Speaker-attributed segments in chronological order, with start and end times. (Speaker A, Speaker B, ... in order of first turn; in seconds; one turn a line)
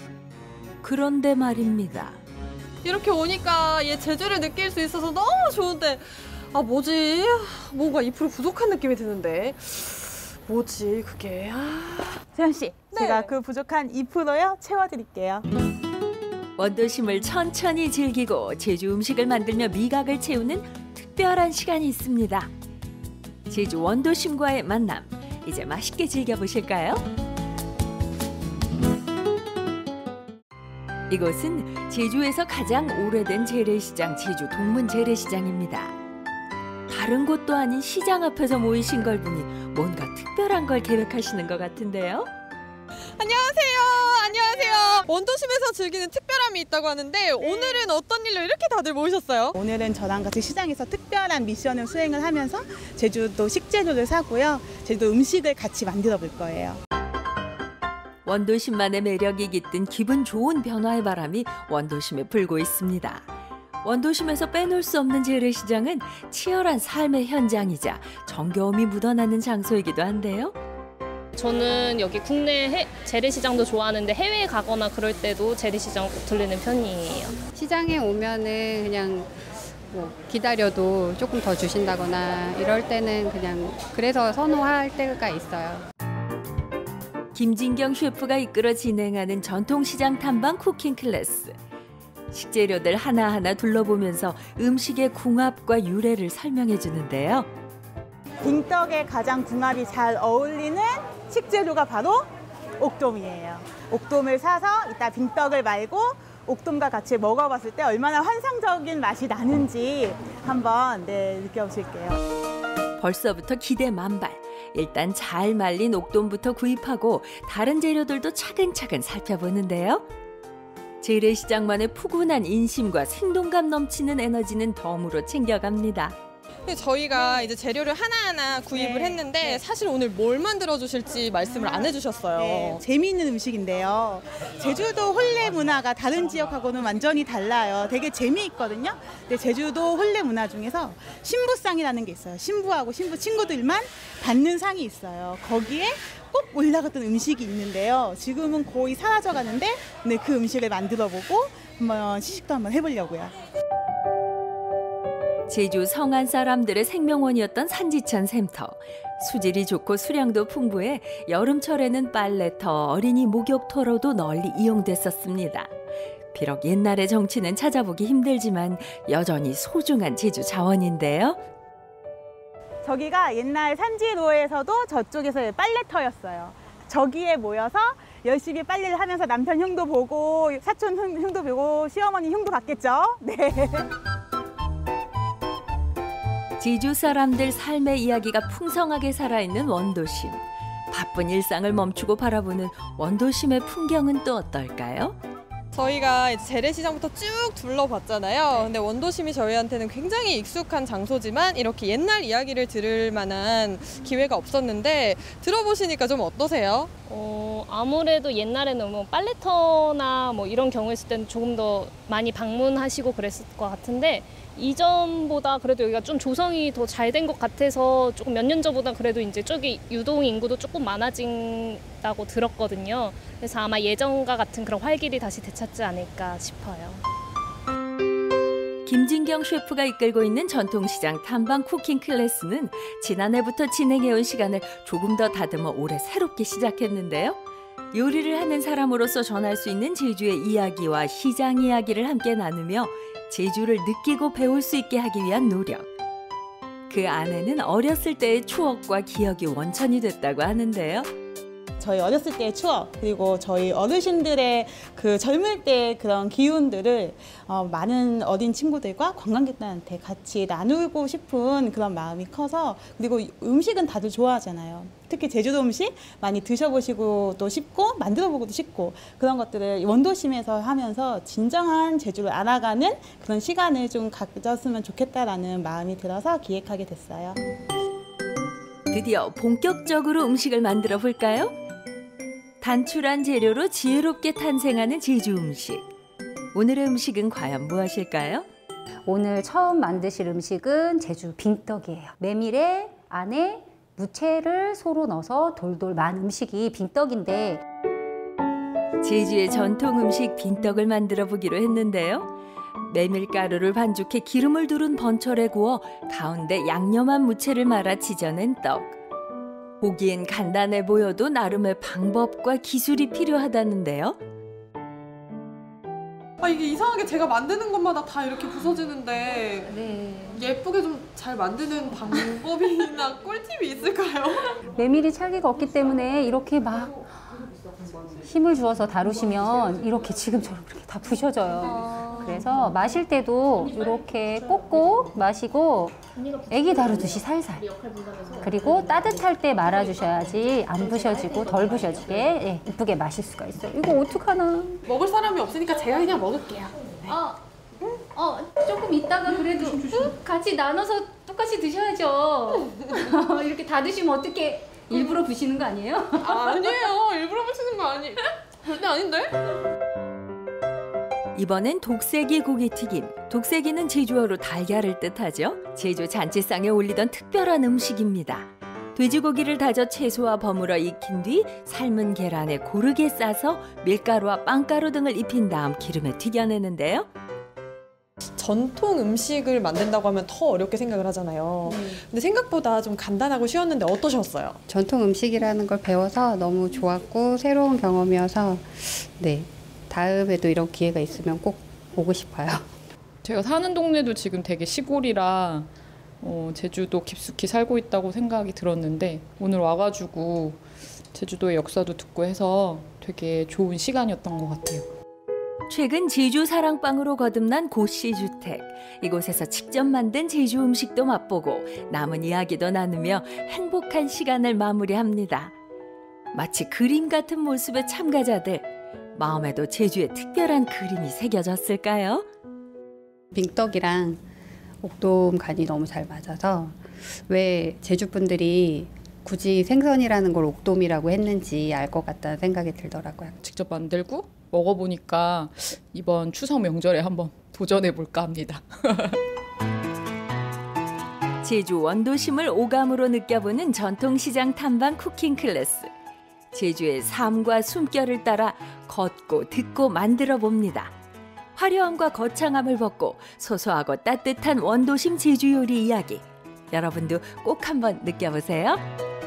Speaker A: 0.8-2.2
Speaker B: 2.8-12.2
Speaker C: 12.3-15.4
Speaker B: 12.9-13.3
Speaker A: 16.6-22.5
Speaker A: 23.5-27.0
Speaker A: 31.1-36.0
Speaker A: 36.9-42.3
Speaker B: 43.2-49.6
Speaker C: 47.4-47.9
Speaker C: 49.6-56.8
Speaker A: 58.2-63.2
Speaker A: 63.8-70.5
Speaker D: 71.3-77.4
Speaker E: 77.5-79.3
Speaker E: 79.9-85.8
Speaker A: 87.3-91.5
Speaker A: 92.3-97.5
Speaker C: 98.4-102.2
Speaker C: 102.8-112.2
Speaker A: 113.0-120.0
Speaker A: 121.0-126.2
Speaker B: 126.7-132.8
Speaker C: 128.7-129.6
Speaker C: 131.5-153.3
Speaker A: 155.5-165.7
Speaker A: 166.3-171.4
Speaker C: 172.8-183.9
Speaker A: 186.6-195.2
Speaker B: 195.7-206.9
Speaker D: 207.1-227.0
Speaker A: 228.8-237.4
Speaker A: 237.9-245.8
Speaker A: 246.9-251.1
Speaker C: 251.8-277.4
Speaker A: 278.9-281.5
Speaker A: 282.6-285.9
Speaker A: 286.5-288.4
Speaker F: 289.1-297.6
Speaker A: 299.0-309.0
Speaker A: 309.8-314.2
Speaker B: 316.4-319.7
Speaker F: 319.8-320.4
Speaker B: 320.3-324.6
Speaker F: 324.7-327.0
Speaker F: 328.2-336.0
Speaker D: 336.1-338.5
Speaker F: 336.5-337.7
Speaker F: 338.4-344.8
Speaker B: 344.9-347.1
Speaker F: 347.1-347.4
Speaker F: 348.1-356.6
Speaker B: 349.3-350.1
Speaker B: 352.5-353.1
Speaker B: 356.2-359.5
Speaker A: 361.3-377.1
Speaker B: 378.4-384.6
Speaker E: 384.7-392.6
Speaker G: 393.2-395.7
Speaker G: 396.2-400.6
Speaker G: 401.1-404.9
Speaker A: 405.7-415.5
Speaker A: 416.3-422.2
Speaker E: 423.3-424.2
Speaker E: 424.8-433.3
Speaker G: 433.4-439.2
Speaker A: 441.4-445.9
Speaker A: 446.5-450.9
Speaker A: 451.6-458.8